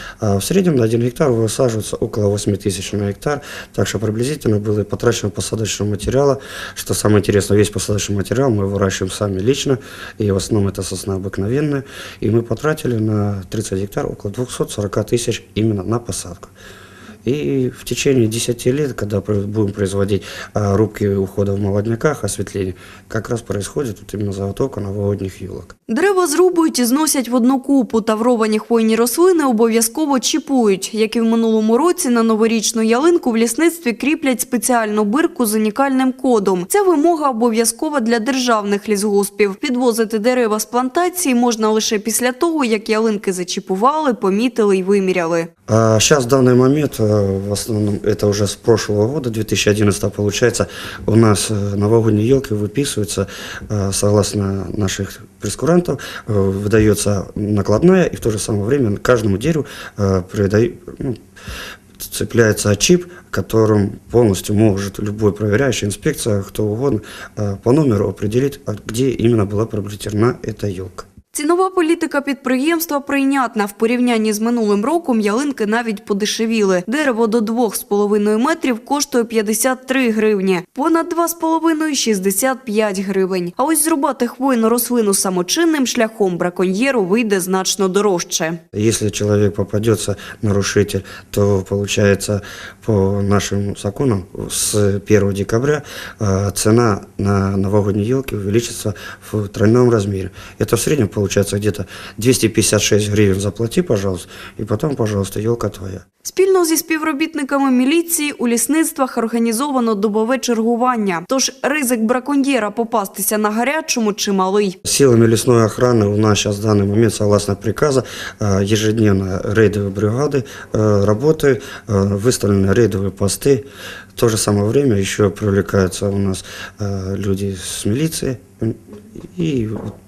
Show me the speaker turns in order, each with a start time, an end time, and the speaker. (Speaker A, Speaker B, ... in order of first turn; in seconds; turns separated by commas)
Speaker A: 0.2-16.5, Speaker A: 17.2-25.7, Speaker B: 25.9-45.5, Speaker A: 45.7-61.2, Speaker A: 62.0-71.1, Speaker B: 71.3-88.6, Speaker A: 88.7-106.0, Speaker B: 106.2-114.8, Speaker A: 114.8-123.6, Speaker A: 124.2-129.9